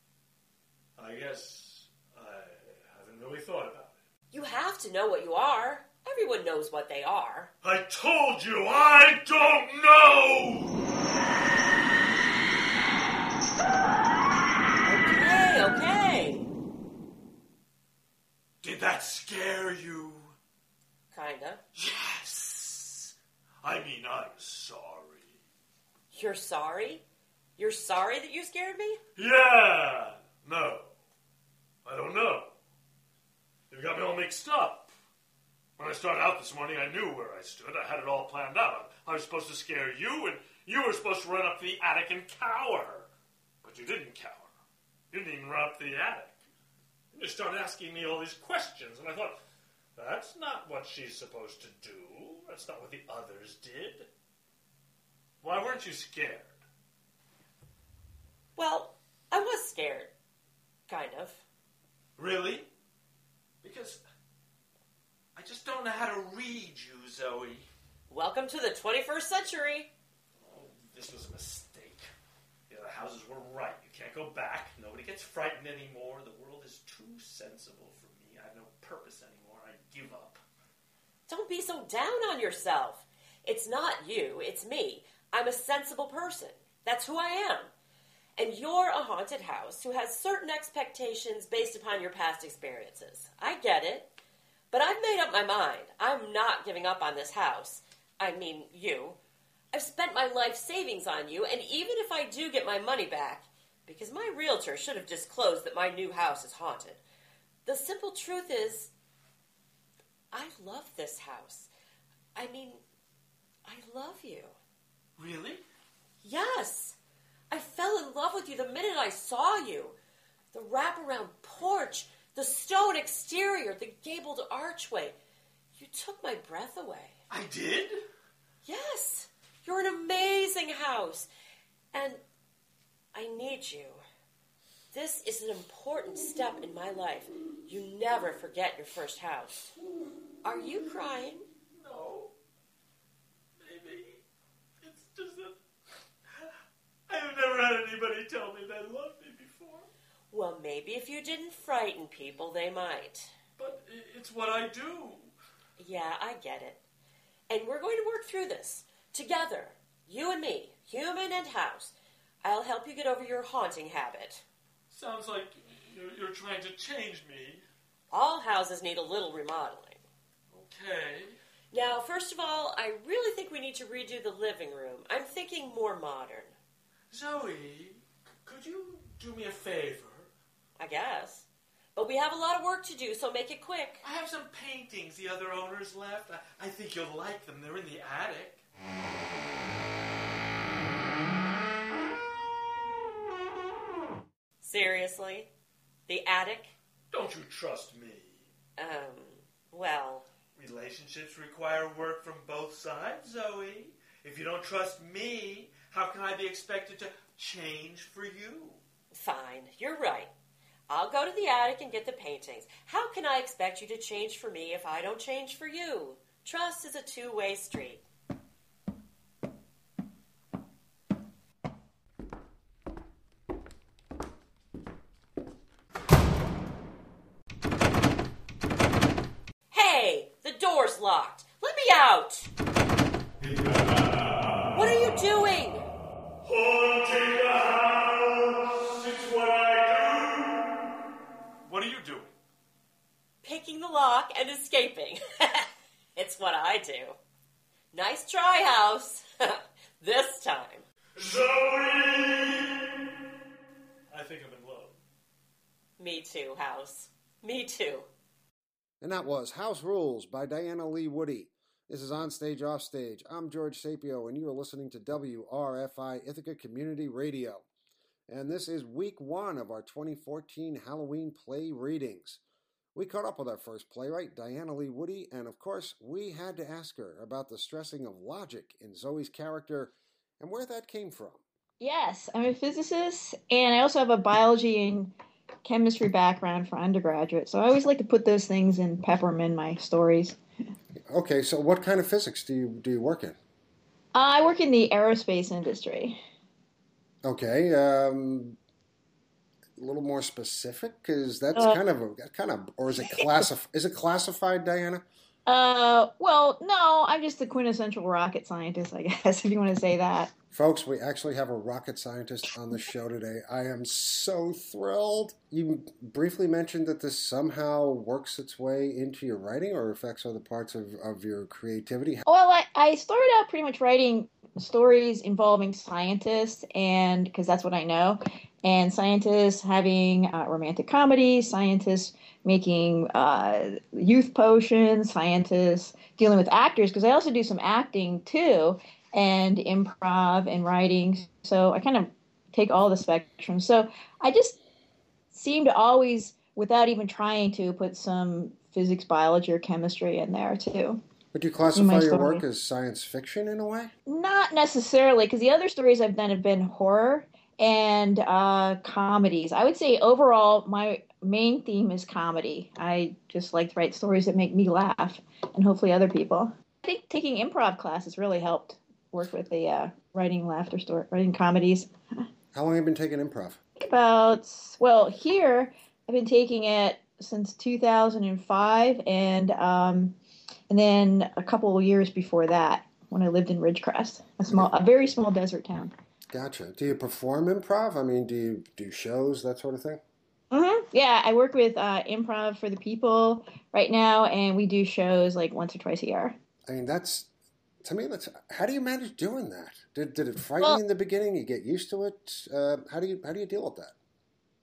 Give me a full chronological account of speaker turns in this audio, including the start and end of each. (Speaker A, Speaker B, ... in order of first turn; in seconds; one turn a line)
Speaker A: 1.0-3.9
Speaker B: 4.3-7.5
Speaker A: 7.6-10.8
Speaker B: 14.8-16.5
Speaker A: 18.6-20.4
Speaker B: 21.1-21.6
Speaker A: 21.8-25.3
Speaker B: 26.1-27.0
Speaker B: 27.6-29.0
Speaker A: 29.2-30.9
Speaker A: 31.9-32.5
Speaker A: 33.7-34.9
Speaker A: 35.8-43.1
Speaker A: 43.6-44.5
Speaker A: 45.1-46.4
Speaker A: 47.1-49.4
Speaker A: 50.0-54.1
Speaker A: 55.4-56.6
Speaker B: 58.6-60.1
Speaker B: 60.9-61.4
Speaker A: 62.2-62.7
Speaker A: 63.6-64.0
Speaker A: 65.4-67.7
Speaker B: 68.1-69.9
Speaker A: 70.4-72.1
Speaker A: 72.7-80.4
Speaker B: 81.3-87.7
Speaker B: 88.4-94.1
Speaker B: 94.7-99.2
Speaker B: 99.7-107.0
Speaker B: 107.7-108.9
Speaker B: 110.3-111.7
Speaker B: 112.3-112.8
Speaker B: 113.7-114.5
Speaker A: 115.2-115.6
Speaker B: 116.2-117.0
Speaker B: 117.5-120.0
Speaker B: 120.5-125.2
Speaker B: 125.8-127.2
Speaker A: 127.3-128.0
Speaker B: 128.6-131.3
Speaker B: 131.9-132.2
Speaker B: 133.1-134.0
Speaker B: 134.9-139.7
Speaker B: 140.4-141.5
Speaker A: 141.8-142.3
Speaker A: 143.6-144.2
Speaker A: 144.8-145.6
Speaker A: 147.1-149.9
Speaker B: 150.3-153.3
Speaker A: 153.6-155.3
Speaker B: 155.8-156.8
Speaker B: 157.5-164.4
Speaker A: 164.9-167.6
Speaker B: 168.1-170.0
Speaker A: 170.5-171.4
Speaker B: 171.7-176.6
Speaker A: 177.1-180.3
Speaker B: 180.8-184.0
Speaker A: 184.0-188.6
Speaker B: 194.6-195.5
Speaker B: 196.1-196.7
Speaker A: 197.1-198.4
Speaker B: 198.8-200.3
Speaker A: 200.6-208.8
Speaker B: 209.2-210.3
Speaker B: 210.9-218.0
Speaker B: 229.7-232.5
Speaker A: 233.4-234.4
Speaker B: 234.7-235.8
Speaker A: 236.4-240.7
Speaker A: 241.7-242.3
Speaker B: 243.4-247.2
Speaker B: 247.9-250.8
Speaker A: 251.2-252.8
Speaker A: 254.1-255.0
Speaker B: 256.0-258.1
Speaker C: 259.0-267.7
Speaker C: 268.3-272.4
Speaker C: 272.9-281.4
Speaker D: 281.8-285.1
Speaker D: 285.6-290.4
Speaker C: 291.1-293.4
Speaker D: 294.1-296.2
Speaker C: 297.2-298.6
Speaker C: 299.8-305.0
Speaker D: 303.1-303.4
Speaker D: 305.5-310.3
Speaker C: 310.5-322.2
Speaker D: 322.3-344.6
Speaker D: 345.3-351.0
Speaker C: 351.3-353.9
Speaker D: 351.8-352.4
Speaker D: 354.1-371.9
Speaker C: 372.5-373.6
Speaker D: 373.8-380.1
Speaker D: 380.7-385.9
Speaker C: 386.3-390.0
Speaker D: 390.5-396.4
Speaker C: 396.7-397.3
Speaker C: 397.8-403.9